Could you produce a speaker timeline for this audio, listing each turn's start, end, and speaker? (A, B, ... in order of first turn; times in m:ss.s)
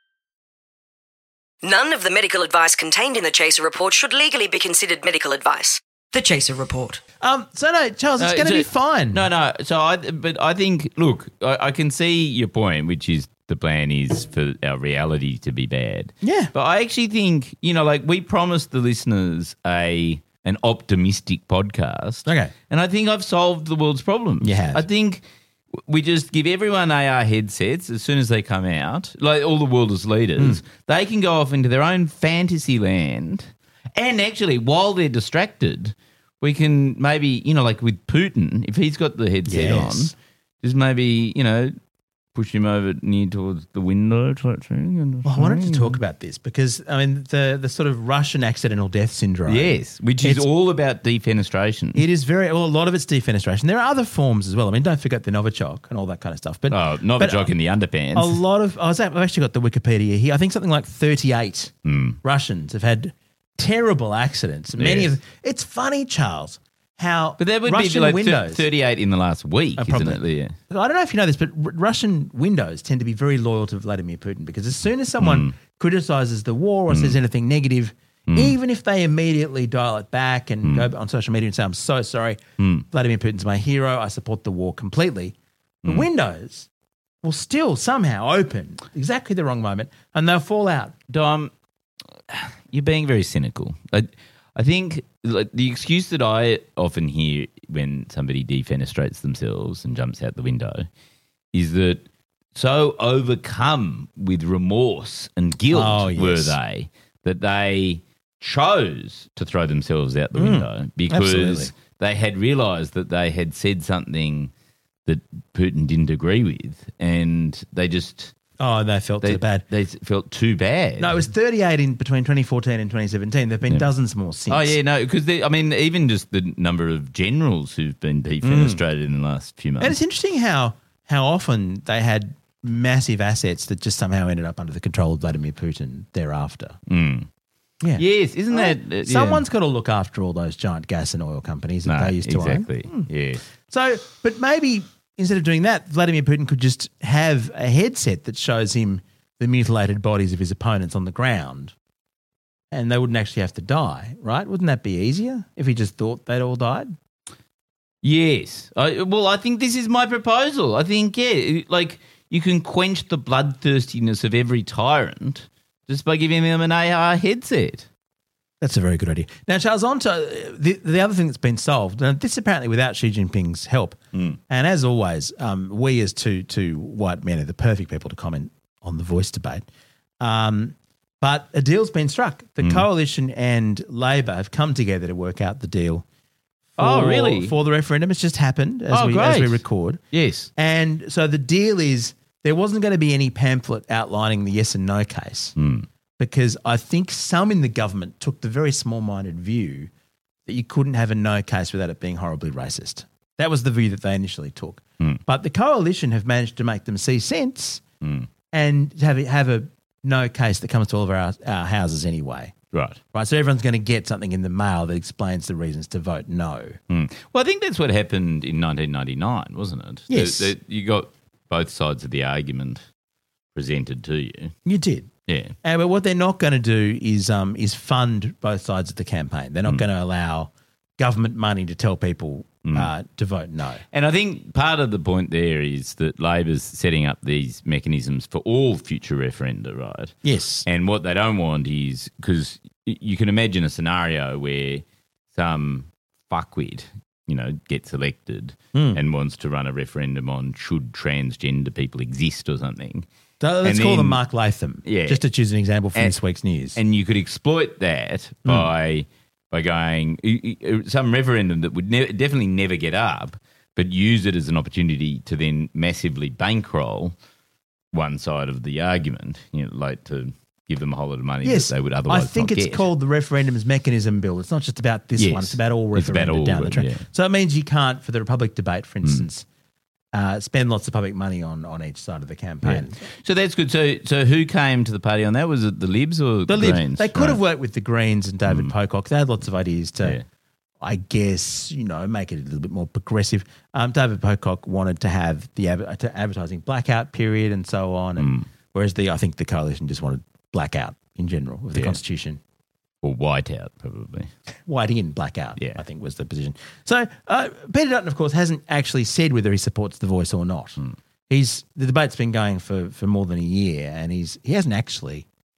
0:01.6-0:07.0 A
0:07.2-0:09.2 B
0:08.2-0:25.2 C
0:16.2-0:16.5 B
0:22.2-0:22.5 B
0:24.4-0:24.8 B
0:25.7-0:41.7 C
0:39.5-0:40.1 B
0:42.4-0:46.0 C
0:45.2-0:50.5 B
0:49.5-0:52.0 C
0:52.0-0:57.5 B
0:56.7-0:58.4 C
0:58.1-1:01.7 B
1:01.8-1:02.2 C
1:02.2-1:08.6 B
1:04.8-1:05.1 C
1:07.4-1:10.5 C
1:09.8-1:26.7 B
1:15.2-1:15.5 C
1:16.9-1:17.2 C
1:18.3-1:18.6 C
1:22.6-1:22.8 C
1:27.2-1:31.0 B
1:31.1-1:31.5 C
1:32.3-1:40.9 C
1:41.5-1:42.0 C
1:42.5-1:54.5 C
1:45.7-1:46.6 B
1:50.4-1:51.7 B
1:55.1-1:58.3 C
1:58.6-1:59.6 B
1:59.2-2:01.3 C
2:01.0-2:04.8 B
2:04.5-2:10.0 C
2:08.4-2:08.8 B
2:09.8-2:16.8 B
2:16.9-2:17.3 C
2:17.8-2:23.1 B
2:18.0-2:19.4 C
2:21.9-2:23.4 C
2:23.6-2:31.7 B
2:32.7-2:36.9 B
2:38.0-2:47.9 C
2:48.6-2:54.0 B
2:54.5-2:59.6 B
3:00.2-3:06.0 B
3:06.8-3:10.0 B
3:06.8-3:07.6 C
3:08.9-3:10.5 C
3:10.6-3:15.5 B
3:15.6-3:15.9 C
3:16.2-3:19.9 B
3:20.5-3:27.8 B
3:28.0-3:28.3 C
3:28.5-3:32.5 B
3:32.7-3:33.0 C
3:33.1-3:36.8 B
3:36.9-3:42.8 C
3:40.1-3:40.5 B
3:43.5-3:44.5 C
3:44.6-3:45.1 B
3:45.3-3:45.5 C
3:45.6-3:53.8 B
3:52.6-3:52.9 C
3:53.9-4:00.1 C
4:00.2-4:00.6 B
4:00.6-4:13.1 C
4:08.7-4:09.0 B
4:13.4-4:16.8 B
4:13.6-4:14.2 C
4:14.8-4:15.2 C
4:16.8-4:27.1 C
4:27.9-4:32.9 C
4:31.4-4:39.5 B
4:35.2-4:37.0 C
4:40.1-4:43.0 B
4:42.6-4:47.4 C
4:46.5-4:50.2 B
4:50.8-5:02.4 B
4:58.2-4:58.5 C
5:03.0-5:04.3 C
5:04.7-5:15.2 B